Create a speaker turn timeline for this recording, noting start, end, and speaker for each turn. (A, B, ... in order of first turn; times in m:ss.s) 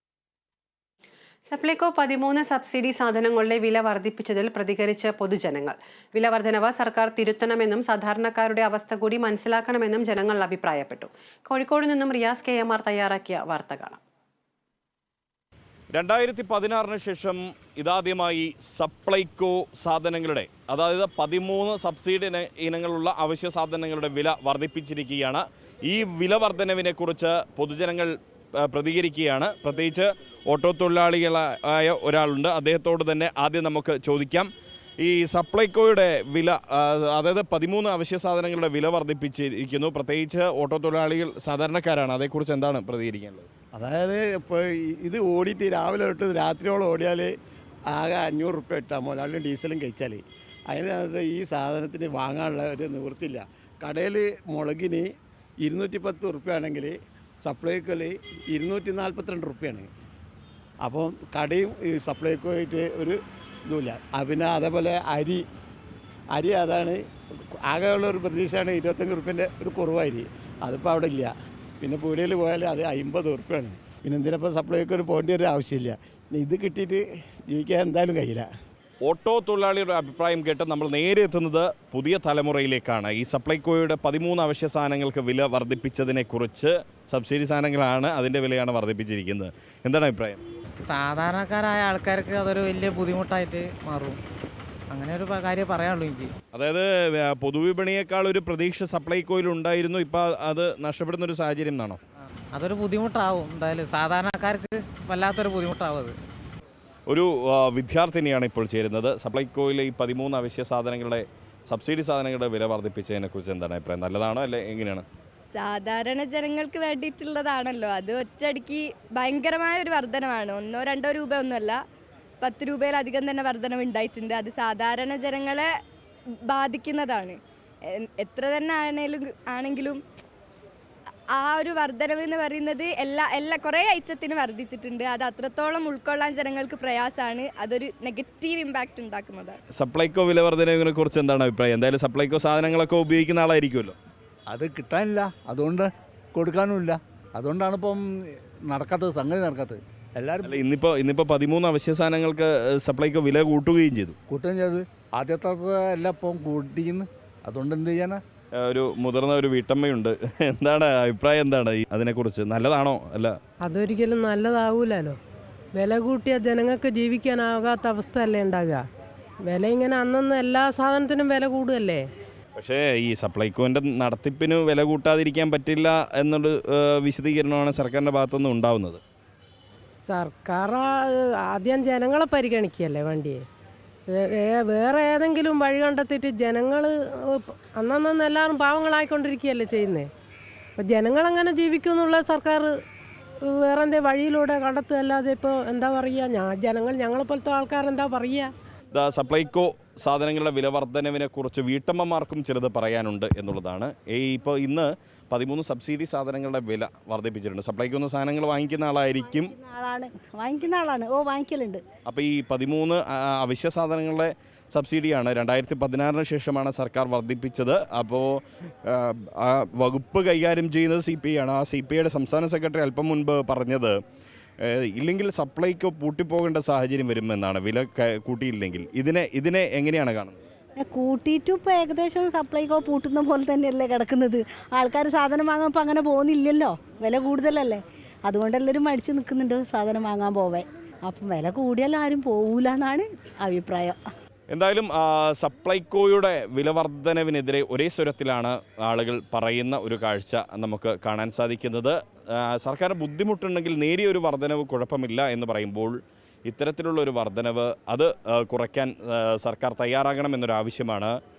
0:01.5-0:14.0 A
0:15.9-0:43.5 B
0:43.7-0:47.3 C
0:47.9-0:55.1 C
0:55.6-0:59.9 C
1:00.8-1:03.2 C
1:03.7-1:05.4 C
1:06.3-1:07.0 C
1:07.7-1:18.5 C
1:19.0-1:30.4 B
1:30.9-1:34.2 D
1:34.9-1:36.3 D
1:36.5-1:42.0 B
1:42.5-1:46.1 D
1:47.1-1:55.0 B
1:55.5-2:01.8 E
2:02.4-2:05.7 E
2:06.5-2:07.4 E
2:08.0-2:10.0 E
2:11.4-2:19.6 E
2:19.7-2:24.0 B
2:24.5-2:28.0 F
2:28.6-2:30.6 F
2:30.4-2:34.1 B
2:34.3-2:38.2 F
2:38.6-2:43.4 B
2:43.6-2:45.2 G
2:45.7-2:48.8 G
2:49.4-2:52.0 G
2:52.6-2:59.0 B
3:00.0-3:03.4 G
3:04.1-3:10.1 G
3:10.8-3:12.7 G
3:13.4-3:18.5 G
3:18.9-3:29.5 B
3:29.4-3:31.8 H
3:32.1-3:44.0 B
3:44.6-3:50.4 B
3:50.9-4:04.0 H
4:04.5-4:15.9 B
4:16.5-4:21.1 B